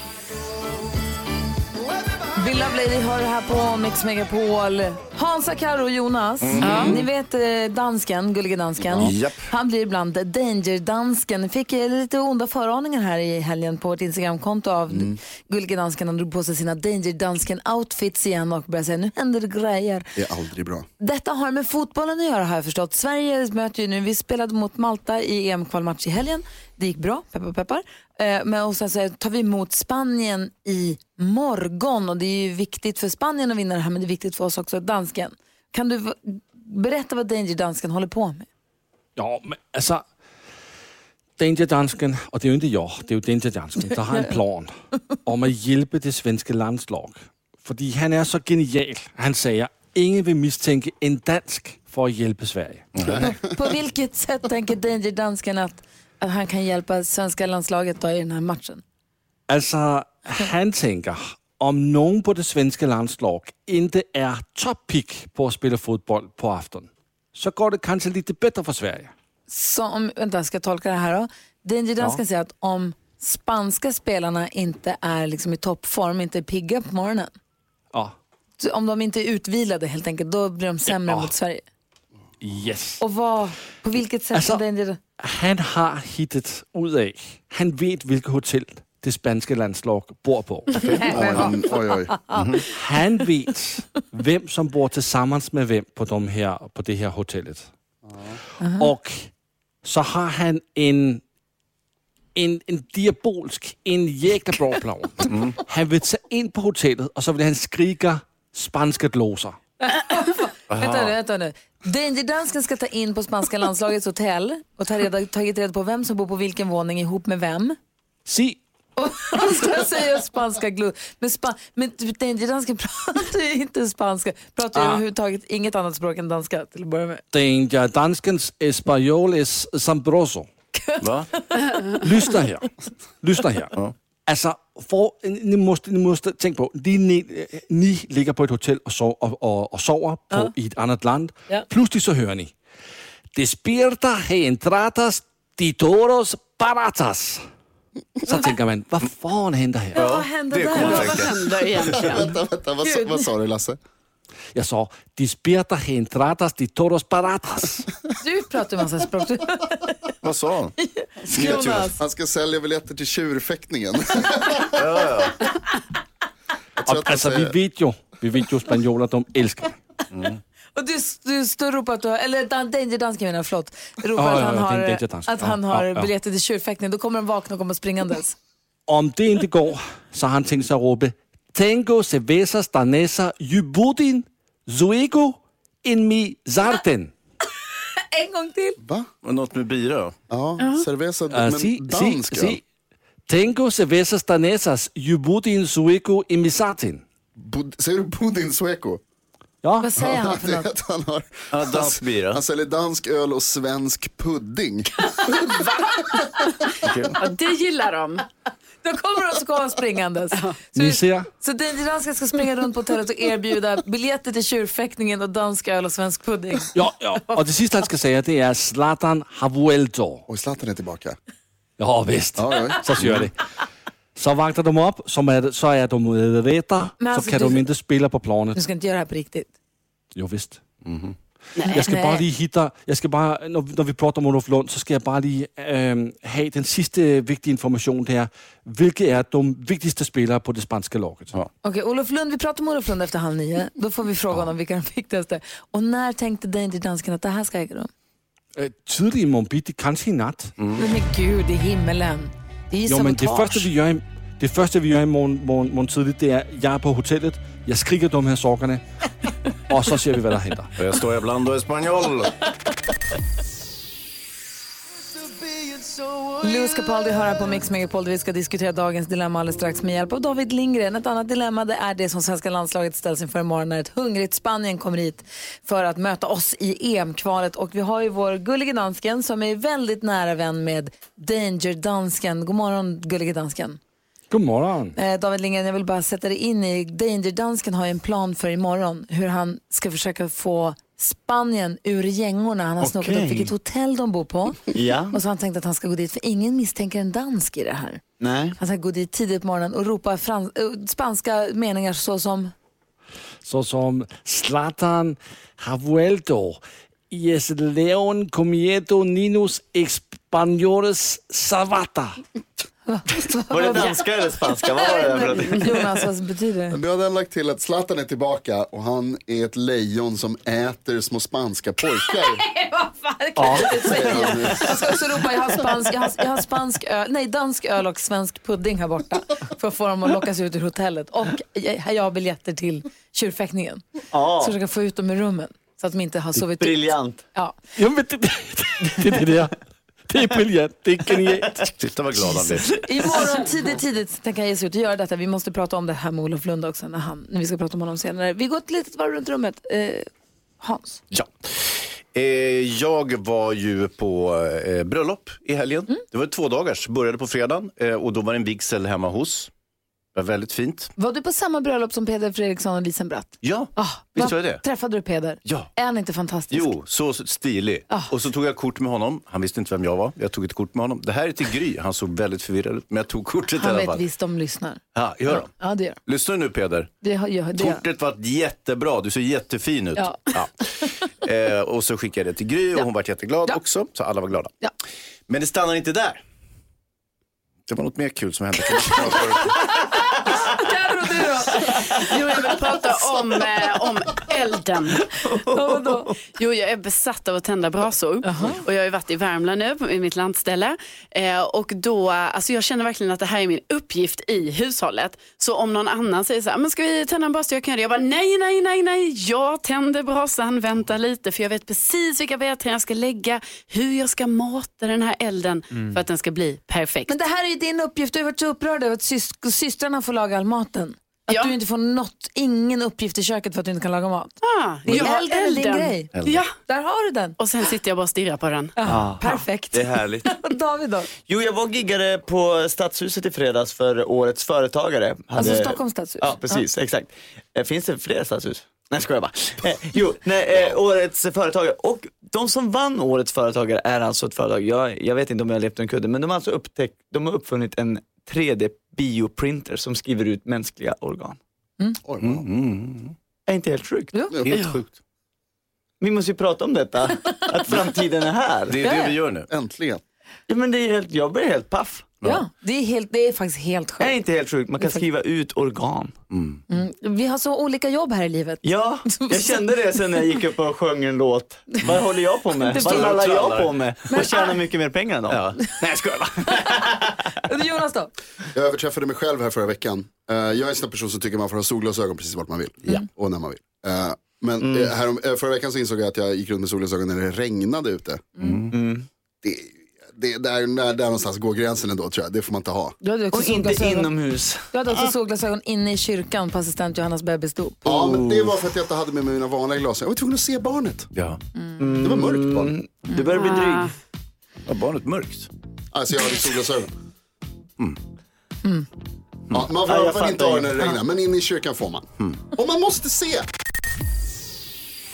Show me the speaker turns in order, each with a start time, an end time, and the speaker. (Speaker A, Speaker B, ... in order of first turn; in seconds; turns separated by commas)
Speaker A: 2.4-20.1, Speaker B: 6.4-7.0, Speaker C: 6.6-7.0, Speaker D: 8.8-9.1, Speaker B: 9.0-9.5, Speaker D: 14.9-15.2, Speaker D: 20.2-20.9, Speaker A: 21.0-38.5, Speaker E: 39.2-40.0, Speaker E: 41.4-44.7, Speaker E: 45.3-52.9, Speaker B: 53.0-53.3, Speaker D: 53.0-53.4, Speaker A: 53.2-58.8, Speaker E: 59.5-69.1, Speaker A: 69.5-77.3, Speaker A: 78.6-81.6, Speaker E: 81.0-81.3, Speaker E: 82.4-83.0, Speaker A: 83.0-85.0, Speaker E: 84.3-84.6, Speaker E: 85.2-91.1, Speaker B: 90.7-91.5, Speaker A: 90.8-92.4, Speaker D: 91.1-92.2, Speaker B: 92.3-92.7, Speaker E: 92.7-97.7, Speaker A: 98.6-98.9, Speaker E: 98.7-99.3, Speaker E: 99.8-101.2, Speaker E: 102.4-109.6, Speaker B: 105.3-105.6, Speaker A: 109.8-117.8, Speaker B: 110.7-111.1, Speaker E: 118.3-118.6, Speaker A: 119.0-127.2, Speaker E: 127.3-130.5, Speaker A: 130.9-132.0, Speaker B: 131.0-131.3, Speaker E: 131.9-132.7, Speaker E: 133.2-133.8, Speaker E: 134.3-142.5, Speaker E: 143.3-147.4, Speaker E: 148.2-150.0, Speaker A: 149.9-151.3, Speaker B: 149.9-152.0, Speaker C: 150.7-152.3, Speaker D: 151.9-153.8, Speaker A: 152.8-153.3, Speaker E: 154.6-157.9, Speaker A: 158.2-159.9, Speaker B: 160.2-160.7, Speaker A: 160.8-162.0, Speaker B: 161.3-161.9, Speaker D: 161.4-164.8, Speaker B: 164.7-165.4, Speaker D: 166.8-167.5, Speaker E: 166.8-169.8, Speaker B: 170.1-170.4, Speaker A: 170.8-178.3, Speaker E: 174.2-176.1, Speaker E: 178.9-187.1, Speaker A: 188.1-188.8, Speaker D: 188.8-189.1, Speaker B: 189.2-190.2, Speaker D: 190.3-192.6, Speaker E: 191.3-192.6, Speaker E: 193.3-197.0, Speaker D: 197.4-199.0, Speaker E: 199.6-199.9, Speaker A: 199.8-200.7, Speaker D: 200.0-204.9, Speaker B: 201.5-202.4, Speaker C: 205.4-206.0, Speaker B: 206.8-207.2, Speaker C: 207.2-208.2, Speaker A: 208.8-216.7, Speaker E: 210.8-211.3, Speaker E: 216.7-220.2, Speaker D: 220.3-221.2, Speaker E: 221.8-223.3, Speaker D: 222.4-223.1, Speaker B: 223.0-223.3, Speaker E: 224.2-228.6, Speaker A: 227.0-227.6, Speaker A: 228.6-229.5, Speaker E: 230.2-230.6, Speaker B: 230.8-231.2, Speaker E: 231.7-241.3, Speaker A: 231.7-232.2, Speaker A: 241.6-247.9, Speaker E: 248.6-250.5, Speaker B: 250.6-250.8, Speaker A: 250.8-253.7, Speaker E: 252.9-258.8, Speaker E: 259.7-260.7, Speaker B: 260.8-262.5, Speaker F: 265.2-266.4, Speaker A: 266.4-283.8, Speaker E: 284.3-284.9, Speaker A: 285.0-298.0, Speaker F: 292.8-293.5, Speaker F: 294.7-295.2, Speaker F: 298.2-298.6, Speaker A: 298.6-302.5, Speaker E: 303.4-306.6, Speaker E: 307.1-312.2, Speaker A: 312.9-314.1, Speaker F: 313.5-315.8, Speaker A: 314.7-316.8, Speaker D: 316.7-322.4, Speaker A: 322.1-333.8, Speaker E: 323.4-324.3, Speaker D: 323.8-324.9, Speaker F: 334.1-334.6, Speaker A: 334.4-337.6, Speaker F: 336.4-337.2, Speaker E: 337.8-341.7, Speaker B: 341.8-342.7, Speaker A: 342.8-350.1, Speaker A: 350.6-351.0, Speaker B: 351.1-359.5, Speaker B: 360.1-360.9, Speaker A: 361.0-366.7, Speaker B: 363.4-364.6, Speaker B: 365.4-365.7, Speaker B: 366.5-374.0, Speaker A: 373.6-376.0, Speaker B: 374.9-375.5, Speaker B: 376.1-376.9, Speaker A: 377.0-377.8, Speaker B: 377.6-380.6, Speaker A: 380.0-380.2, Speaker B: 381.2-384.6, Speaker B: 385.3-386.2, Speaker B: 387.7-390.1, Speaker A: 389.9-393.2, Speaker C: 392.1-395.1, Speaker F: 395.2-396.1, Speaker A: 395.5-396.1, Speaker C: 396.4-417.1, Speaker A: 398.2-398.6, Speaker A: 417.1-424.3, Speaker C: 424.4-426.5, Speaker A: 424.9-426.1, Speaker B: 426.1-426.4, Speaker A: 426.7-427.4, Speaker C: 427.4-428.8, Speaker A: 428.8-431.1, Speaker F: 428.9-430.3, Speaker F: 431.2-451.4, Speaker A: 435.4-436.6, Speaker D: 452.0-452.5, Speaker B: 452.2-453.1, Speaker F: 453.5-454.2, Speaker D: 454.3-454.6, Speaker B: 454.4-454.9, Speaker F: 456.0-458.9, Speaker B: 458.7-459.5, Speaker A: 458.8-459.1, Speaker D: 459.5-460.0, Speaker F: 460.5-462.1, Speaker A: 462.2-464.1, Speaker F: 464.0-466.2, Speaker B: 466.3-466.6, Speaker A: 466.7-469.6, Speaker F: 468.6-477.0, Speaker A: 472.6-473.1, Speaker B: 472.7-473.8, Speaker A: 474.1-474.6, Speaker B: 475.3-476.3, Speaker A: 476.5-476.8, Speaker A: 477.4-478.1, Speaker D: 478.5-488.3, Speaker F: 484.6-484.9, Speaker B: 488.4-488.7, Speaker F: 488.7-489.1, Speaker D: 489.4-493.0, Speaker A: 493.0-494.1, Speaker F: 493.3-495.1, Speaker A: 494.7-497.9, Speaker D: 497.9-501.1, Speaker F: 498.0-498.4, Speaker B: 501.1-501.4, Speaker F: 501.8-503.9, Speaker D: 502.0-502.7, Speaker C: 503.3-503.9, Speaker B: 504.7-505.5, Speaker D: 505.9-506.9, Speaker D: 509.5-513.5, Speaker F: 509.8-511.0